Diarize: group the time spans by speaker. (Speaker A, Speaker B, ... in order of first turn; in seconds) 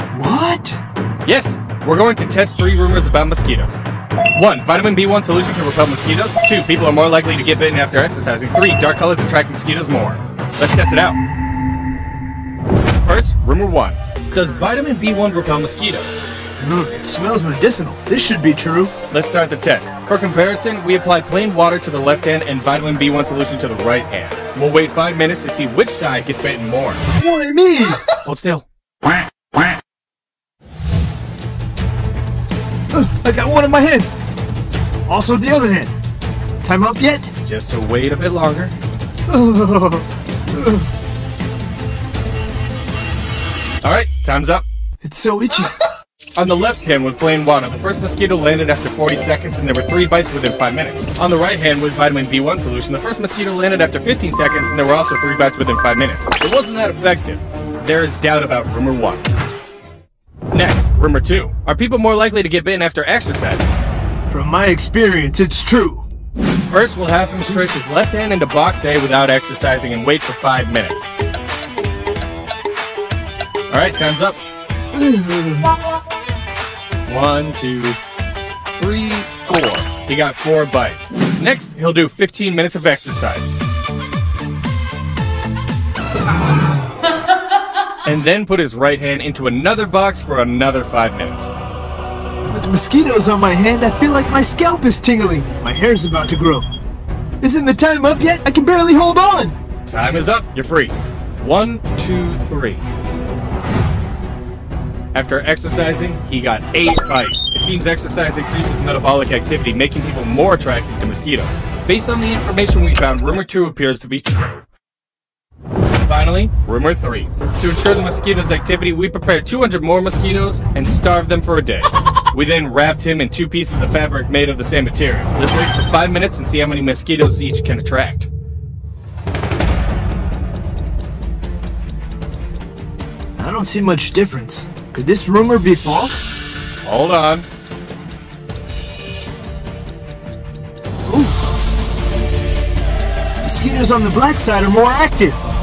Speaker A: 0.1-0.8, 16.6-18.9, 27.1-28.0, 32.9-34.1, 35.1-35.9, 36.6-37.3, 39.3-40.8, 45.0-45.7, 64.3-66.0, 74.9-75.7, 92.4-96.7, 97.4-99.5, 133.4-136.3, 141.1-141.4, 143.4-145.4
Speaker B: 1.2-3.8, 4.3-11.2, 13.0-16.2, 19.1-27.0, 28.2-28.6, 37.4-38.8, 43.8-44.6, 46.4-59.3, 60.5-63.6, 66.7-71.1, 73.7-74.4, 77.0-78.0, 78.7-83.5, 88.0-91.5, 99.9-102.8, 105.1-114.6, 116.0-128.3, 136.8-137.4